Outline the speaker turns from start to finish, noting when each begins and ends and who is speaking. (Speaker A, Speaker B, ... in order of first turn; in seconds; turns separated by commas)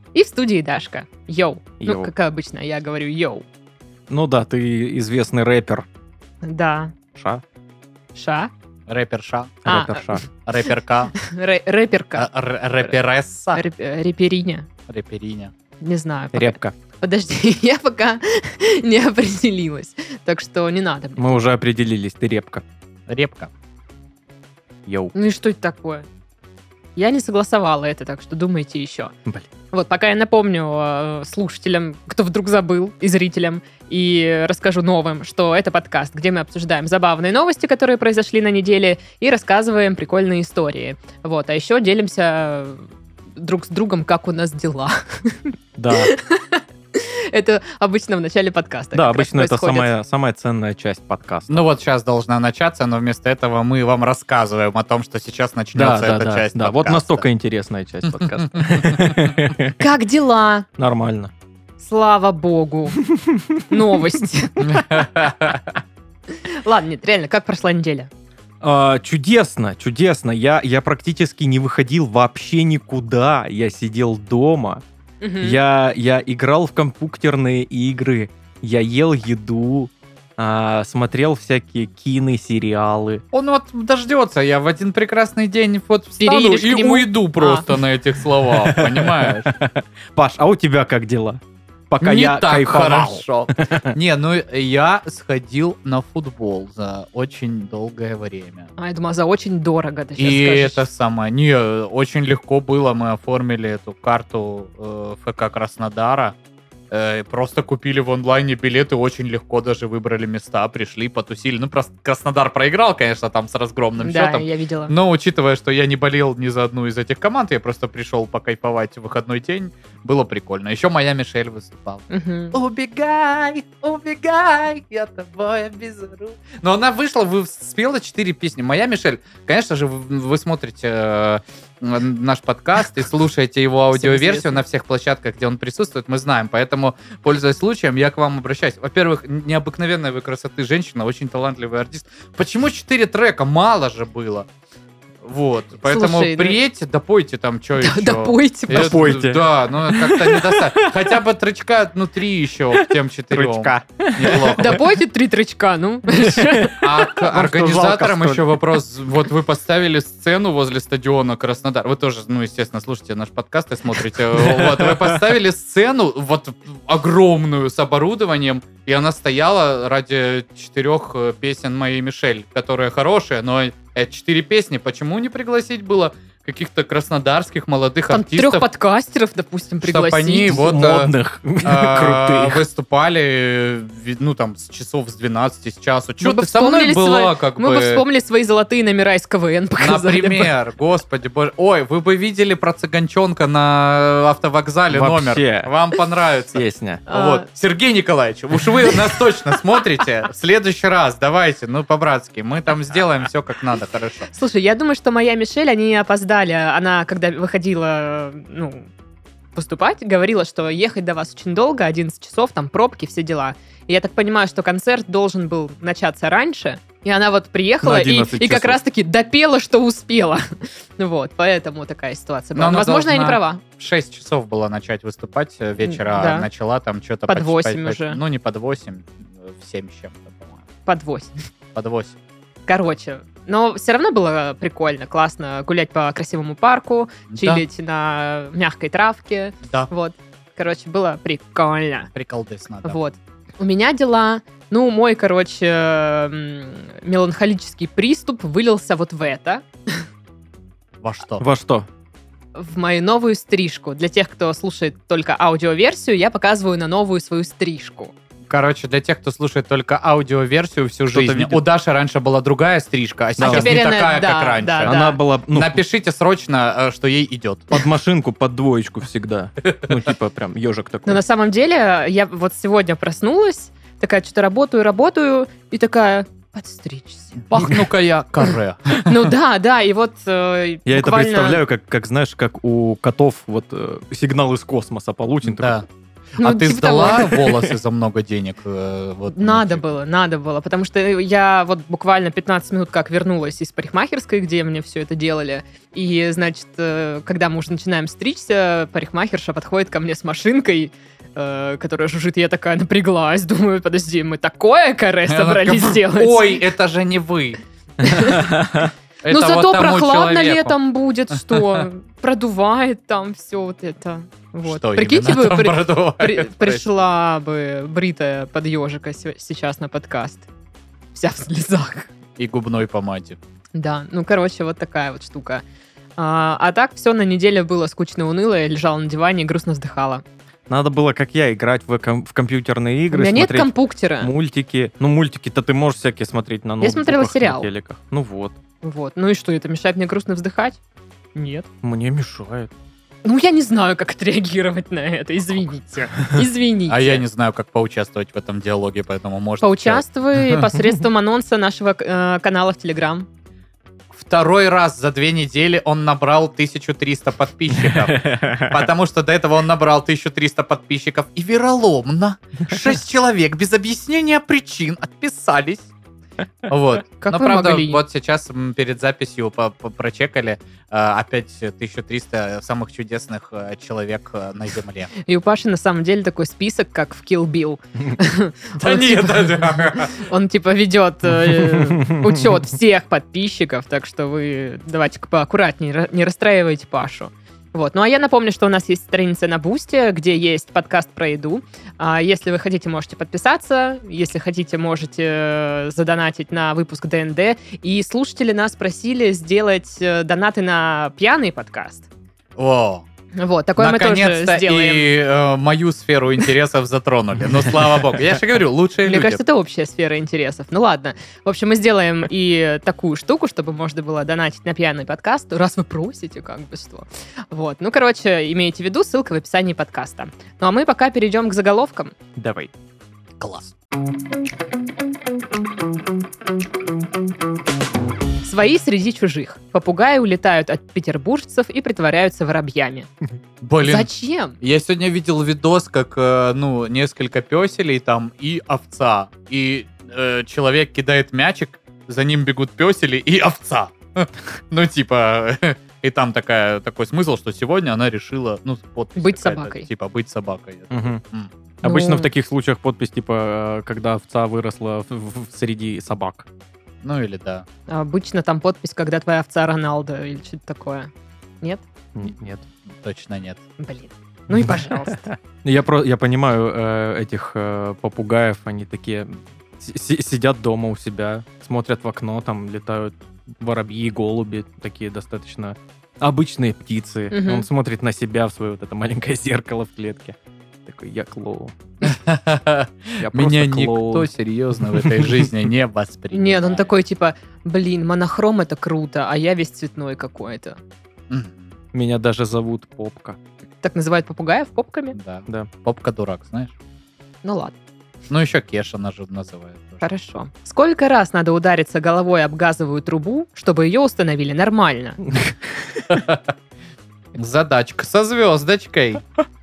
Speaker A: 0.1-3.5, Speaker B: 1.8-2.1, Speaker B: 4.1-5.8, Speaker A: 6.4-6.9, Speaker B: 7.1-7.4, Speaker A: 8.1-8.5, Speaker C: 8.9-9.6, Speaker B: 9.6-10.2, Speaker A: 9.7-10.2, Speaker C: 10.4-11.2, Speaker A: 11.1-12.3, Speaker C: 12.2-13.6, Speaker A: 13.5-14.7, Speaker C: 14.9-15.5, Speaker A: 15.8-21.2, Speaker B: 16.3-16.7, Speaker B: 21.2-22.6, Speaker C: 23.1-23.5, Speaker B: 24.9-25.1, Speaker A: 25.1-26.1, Speaker A: 26.9-29.1, Speaker A: 29.7-49.9, Speaker B: 45.8-46.1, Speaker B: 48.9-51.7, Speaker C: 51.5-57.2, Speaker B: 55.7-59.8, Speaker C: 58.1-59.1, Speaker A: 59.8-60.7, Speaker B: 60.8-61.3, Speaker A: 61.8-63.0, Speaker B: 63.0-63.8, Speaker A: 63.7-64.8, Speaker C: 64.6-65.7, Speaker A: 66.5-68.1, Speaker B: 68.6-74.8, Speaker A: 75.2-75.6, Speaker B: 75.4-83.2, Speaker C: 83.3-89.5, Speaker A: 86.2-87.7, Speaker B: 88.5-93.9, Speaker C: 92.0-98.7, Speaker A: 98.8-100.8, Speaker C: 100.2-106.3, Speaker C: 106.9-144.5, Speaker A: 114.0-114.9, Speaker A: 122.1-122.6, Speaker A: 133.9-134.6, Speaker C: 145.2-154.8, Speaker A: 145.9-146.6, Speaker A: 147.8-149.2, Speaker B: 148.7-150.9, Speaker B: 152.7-154.8, Speaker A: 154.6-157.1, Speaker B: 156.3-158.6, Speaker C: 156.8-178.7, Speaker B: 164.3-165.3, Speaker A: 178.1-180.6, Speaker C: 179.8-188.0, Speaker B: 180.5-182.6, Speaker A: 186.2-190.5, Speaker C: 189.8-204.3, Speaker B: 194.9-195.7, Speaker B: 196.5-197.0, Speaker A: 197.1-197.4, Speaker A: 198.8-199.2, Speaker A: 204.3-208.9, Speaker A: 209.5-223.6, Speaker B: 217.8-218.8, Speaker C: 222.5-230.6, Speaker A: 225.8-226.5, Speaker A: 227.3-228.2, Speaker A: 230.8-231.3, Speaker C: 231.7-232.1, Speaker A: 232.7-242.1, Speaker C: 237.3-237.6, Speaker C: 242.1-243.0, Speaker A: 242.8-250.1, Speaker C: 251.0-251.4, Speaker B: 251.4-251.9, Speaker A: 252.5-258.1, Speaker C: 258.5-264.9, Speaker B: 261.1-261.6, Speaker A: 263.4-265.2, Speaker B: 263.4-263.8, Speaker B: 264.8-265.8, Speaker C: 265.5-267.8, Speaker B: 267.7-271.2, Speaker A: 271.1-277.5, Speaker C: 277.5-279.3, Speaker A: 279.0-281.6, Speaker B: 280.9-285.8, Speaker C: 285.4-285.8, Speaker C: 286.4-289.8, Speaker A: 286.4-287.4, Speaker B: 287.3-287.7, Speaker A: 289.3-306.6, Speaker C: 305.3-307.6, Speaker A: 308.0-320.5, Speaker B: 308.2-308.9, Speaker C: 309.2-310.8, Speaker C: 311.3-311.9, Speaker C: 314.7-317.0, Speaker A: 321.1-322.1, Speaker C: 322.4-323.4, Speaker A: 323.7-325.6, Speaker A: 326.2-330.2, Speaker B: 330.7-338.6, Speaker A: 333.1-334.3, Speaker A: 336.8-337.7, Speaker A: 338.8-340.8, Speaker A: 341.3-341.7, Speaker B: 341.8-342.7, Speaker A: 343.2-347.2, Speaker C: 346.9-350.6, Speaker A: 349.6-353.3, Speaker C: 354.1-365.9, Speaker B: 357.7-358.9, Speaker C: 366.7-375.1, Speaker A: 367.2-368.0, Speaker A: 375.2-402.1, Speaker C: 378.8-380.3, Speaker B: 381.5-382.3, Speaker C: 402.6-403.0, Speaker A: 403.4-405.1, Speaker C: 403.8-409.4, Speaker A: 409.0-422.1, Speaker B: 422.4-422.7, Speaker C: 423.4-423.7, Speaker A: 428.4-433.1, Speaker C: 433.6-451.5, Speaker A: 433.8-434.6, Speaker A: 449.2-449.9, Speaker B: 450.9-451.2, Speaker A: 451.8-452.3, Speaker B: 451.8-456.4, Speaker C: 457.0-457.6, Speaker A: 457.9-461.1, Speaker B: 462.1-462.7, Speaker C: 463.0-463.6, Speaker A: 463.8-465.2, Speaker B: 465.3-481.8, Speaker A: 477.3-477.6, Speaker C: 482.0-486.9, Speaker B: 483.2-484.3, Speaker B: 484.8-485.5, Speaker A: 486.3-490.8, Speaker C: 491.3-491.7, Speaker B: 491.9-493.4, Speaker A: 493.8-495.2, Speaker C: 495.1-496.7, Speaker A: 497.4-497.7, Speaker C: 498.3-500.0, Speaker A: 500.0-505.2, Speaker C: 506.1-506.4, Speaker C: 507.3-509.2